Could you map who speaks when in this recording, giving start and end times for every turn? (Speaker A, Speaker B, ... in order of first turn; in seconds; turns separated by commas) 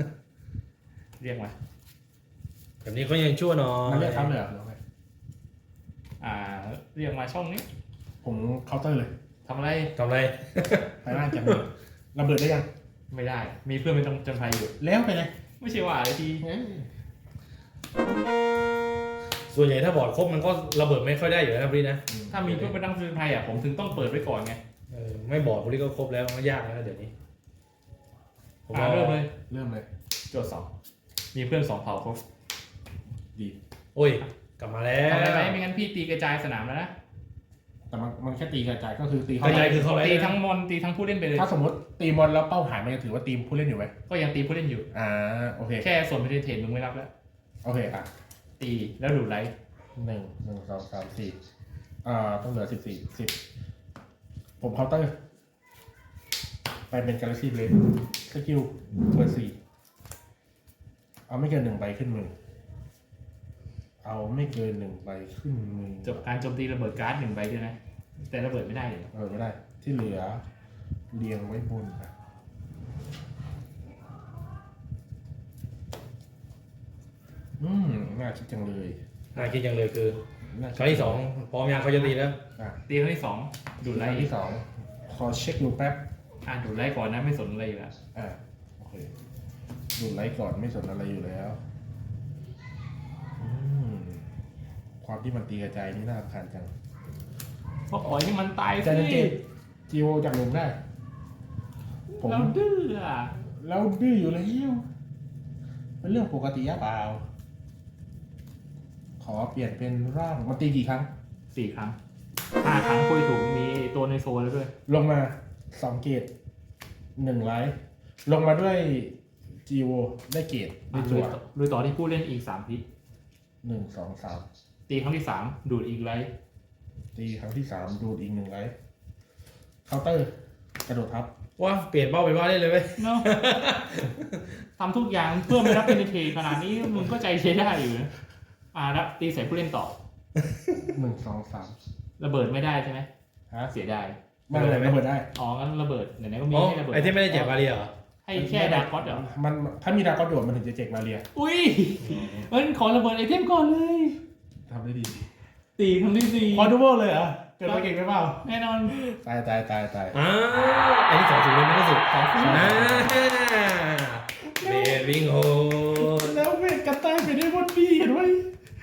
Speaker A: 1.2-1.5, Speaker B: 2.8-4.3, Speaker C: 3.8-4.8, Speaker A: 6.2-7.7, Speaker C: 8.2-9.1, Speaker A: 9.4-9.9, Speaker B: 9.9-11.6, Speaker C: 11.0-12.7, Speaker A: 13.1-14.7, Speaker C: 14.8-15.3, Speaker A: 15.6-16.5, Speaker C: 16.4-16.9, Speaker B: 19.5-22.7, Speaker C: 22.1-22.4, Speaker A: 22.3-24.6, Speaker B: 24.9-27.1, Speaker B: 28.7-29.3, Speaker A: 28.7-29.3, Speaker C: 29.3-29.9, Speaker A: 30.3-30.7, Speaker A: 31.3-32.2, Speaker B: 33.9-35.6, Speaker A: 35.0-36.9, Speaker C: 37.9-39.8, Speaker B: 39.4-40.4, Speaker A: 39.4-41.5, Speaker C: 41.3-43.9, Speaker A: 44.1-44.9, Speaker C: 44.9-45.9, Speaker A: 45.8-47.1, Speaker C: 47.6-48.1, Speaker A: 48.6-49.5, Speaker C: 49.9-51.4, Speaker C: 52.0-53.4, Speaker C: 54.6-55.1, Speaker C: 56.9-59.6, Speaker C: 61.3-62.3, Speaker C: 64.0-66.2, Speaker A: 66.0-69.1, Speaker C: 69.1-70.4, Speaker C: 71.1-72.1, Speaker C: 77.6-79.0, Speaker B: 79.3-80.2, Speaker C: 80.5-81.2, Speaker B: 80.7-82.4, Speaker A: 82.9-84.3, Speaker C: 83.8-86.0, Speaker A: 86.4-87.9, Speaker C: 88.1-89.1, Speaker C: 89.9-91.6, Speaker C: 93.4-94.3, Speaker C: 95.0-96.7, Speaker A: 97.9-99.3, Speaker C: 98.8-100.8, Speaker A: 102.1-103.3, Speaker C: 102.2-102.5, Speaker C: 103.6-104.8, Speaker C: 106.0-107.2, Speaker C: 109.2-111.1, Speaker A: 111.5-112.0, Speaker A: 112.6-114.7, Speaker C: 114.9-116.3, Speaker C: 117.2-121.4, Speaker A: 120.9-122.8, Speaker C: 123.6-124.5, Speaker A: 124.9-126.3, Speaker C: 127.1-128.7, Speaker C: 129.8-130.3, Speaker C: 130.8-131.3, Speaker B: 131.6-134.5, Speaker A: 133.0-133.3, Speaker A: 134.8-138.1, Speaker A: 138.7-140.0, Speaker C: 140.9-141.8, Speaker A: 142.2-143.1, Speaker A: 143.7-144.2, Speaker C: 144.5-145.3, Speaker B: 144.5-145.0, Speaker A: 145.3-147.6, Speaker B: 146.5-147.9, Speaker A: 148.2-149.3, Speaker C: 148.3-151.2, Speaker A: 151.3-154.2, Speaker C: 152.1-152.3, Speaker C: 154.7-155.3, Speaker A: 155.8-156.7, Speaker C: 156.4-160.2, Speaker A: 157.6-157.9, Speaker A: 158.4-159.0, Speaker B: 160.1-166.4, Speaker A: 162.1-163.1, Speaker C: 162.3-163.2, Speaker C: 164.5-165.1, Speaker C: 165.9-168.5